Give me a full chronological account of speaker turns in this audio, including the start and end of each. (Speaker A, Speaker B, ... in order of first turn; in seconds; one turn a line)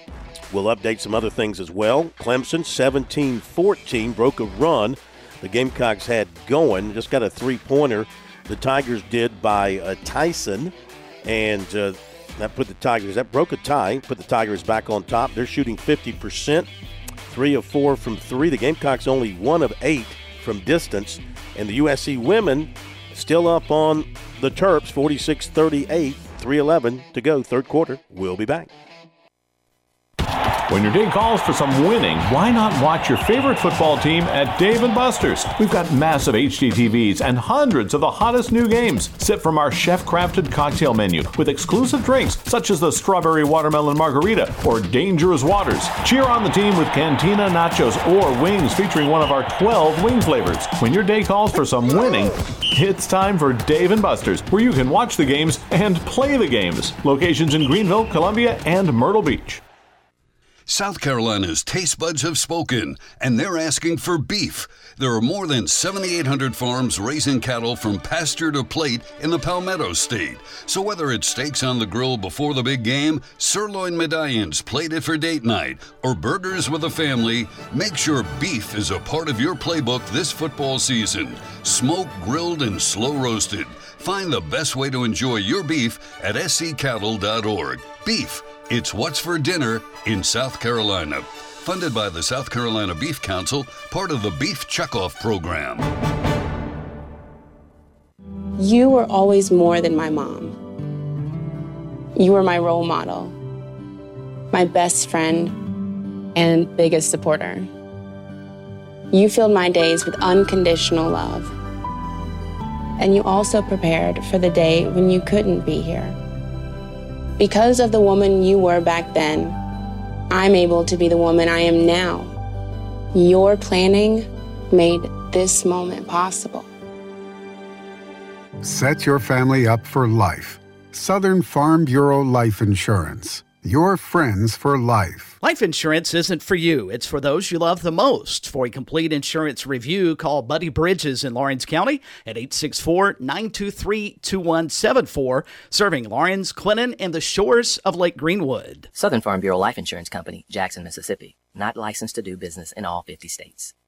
Speaker A: 0.5-10.7
Speaker A: 11.2-16.7
Speaker A: 17.3-28.7
Speaker B: 30.7-59.6
Speaker C: 60.7-95.9
Speaker D: 98.6-100.5
Speaker D: 102.2-103.3
Speaker D: 104.5-105.6
Speaker D: 106.3-107.7
Speaker D: 109.1-111.5
Speaker D: 113.0-116.1
Speaker D: 117.4-119.5
Speaker D: 120.3-122.3
Speaker D: 123.1-126.7
Speaker E: 128.6-135.3
Speaker F: 135.4-148.9
Speaker G: 148.9-153.7